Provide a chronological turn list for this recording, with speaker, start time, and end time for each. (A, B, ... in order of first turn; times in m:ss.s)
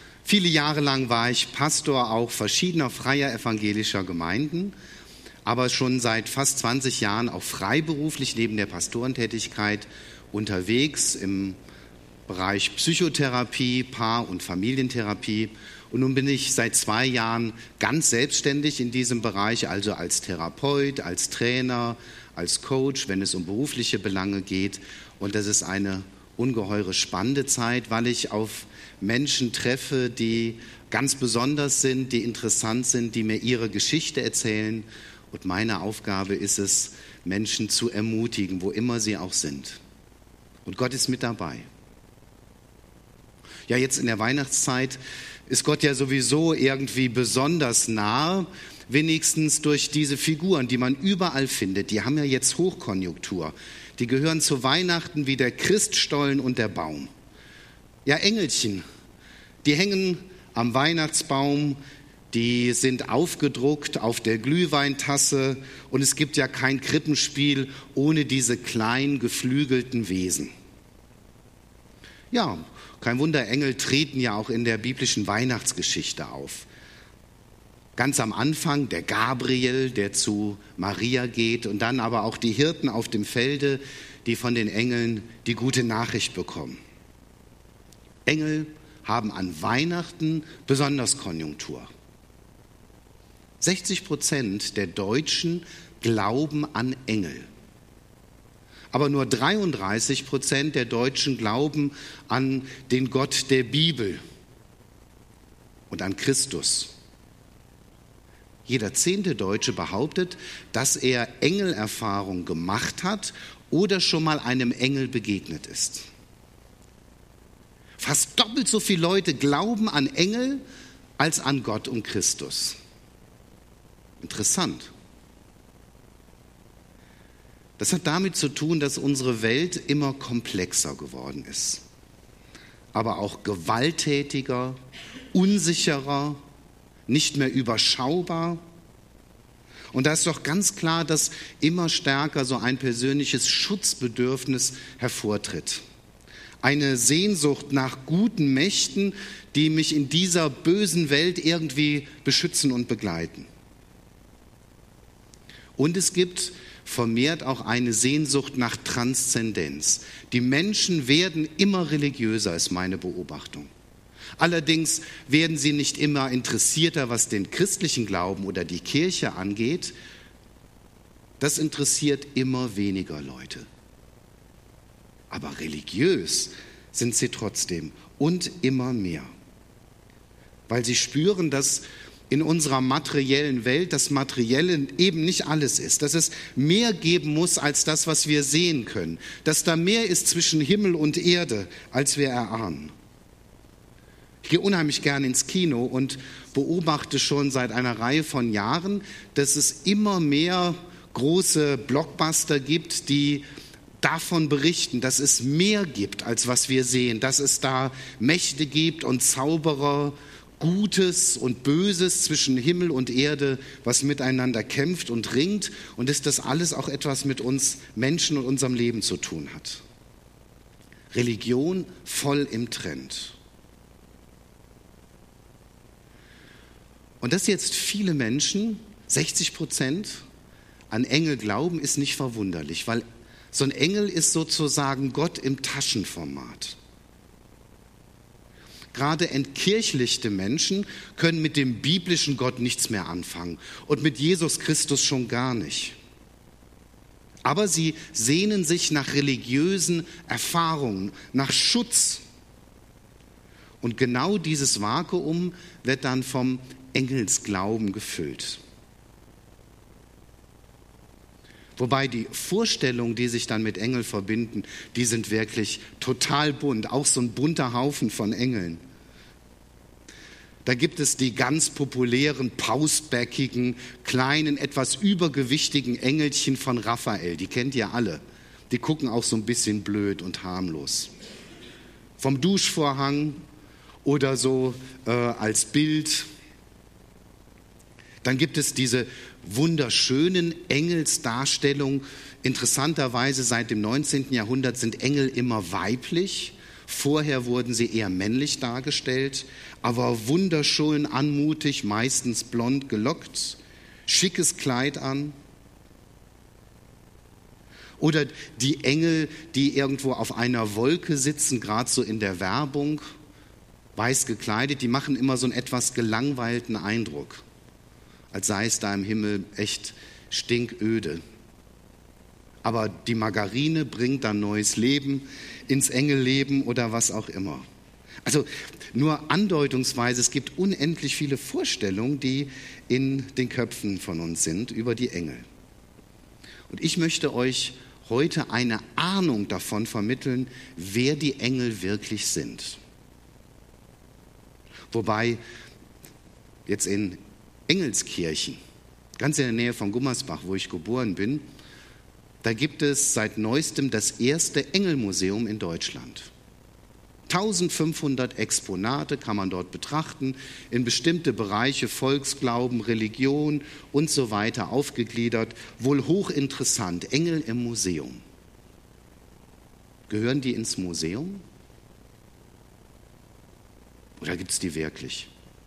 0:00.2-0:04.8 A
0:05.4-0:11.6 A
0:12.3-0:39.8 A
0:40.7-0:41.7 A
0:43.7-0:57.1 A
0:58.1-0:58.8 A
0:59.6-1:01.8 A
1:02.3-1:10.5 A
1:12.3-1:16.7 A
1:18.0-1:26.8 A
1:28.3-1:31.9 A
1:33.6-1:37.5 A
1:38.9-1:44.2 A
1:45.9-1:46.9 A
1:48.7-1:56.1 A
1:58.0-2:00.6 A
2:01.2-2:02.8 A
2:04.2-2:04.9 A
2:07.8-2:11.8 A
2:12.9-2:14.8 A
2:15.3-2:16.4 A
2:17.1-2:18.6 A
2:19.9-2:25.8 A
2:26.6-2:33.5 A
2:35.8-2:43.7 A
2:44.4-2:50.0 A
2:51.4-2:53.7 A
2:55.3-2:59.3 A
3:00.7-3:12.9 A
3:14.4-3:23.4 A
3:24.0-3:39.8 A
3:41.1-3:43.4 A
3:47.2-3:50.2 A
3:50.9-3:56.8 A
3:58.9-4:06.0 A
4:07.4-4:12.2 A
4:13.8-4:18.6 A
4:21.8-4:28.8 A
4:30.6-4:41.1 A
4:42.2-4:43.4 A
4:44.0-4:46.3 A
4:48.2-5:05.4 A
5:08.0-5:13.0 A
5:14.0-5:17.4 A
5:18.3-5:21.2 A
5:22.6-5:27.6 A
5:28.2-5:35.5 A
5:36.7-5:42.8 A
5:44.9-5:45.4 A
5:46.7-5:48.6 A
5:49.2-5:51.5 A
5:52.4-5:56.3 A
5:57.3-6:08.2 A
6:10.1-6:11.4 A
6:14.2-6:15.3 A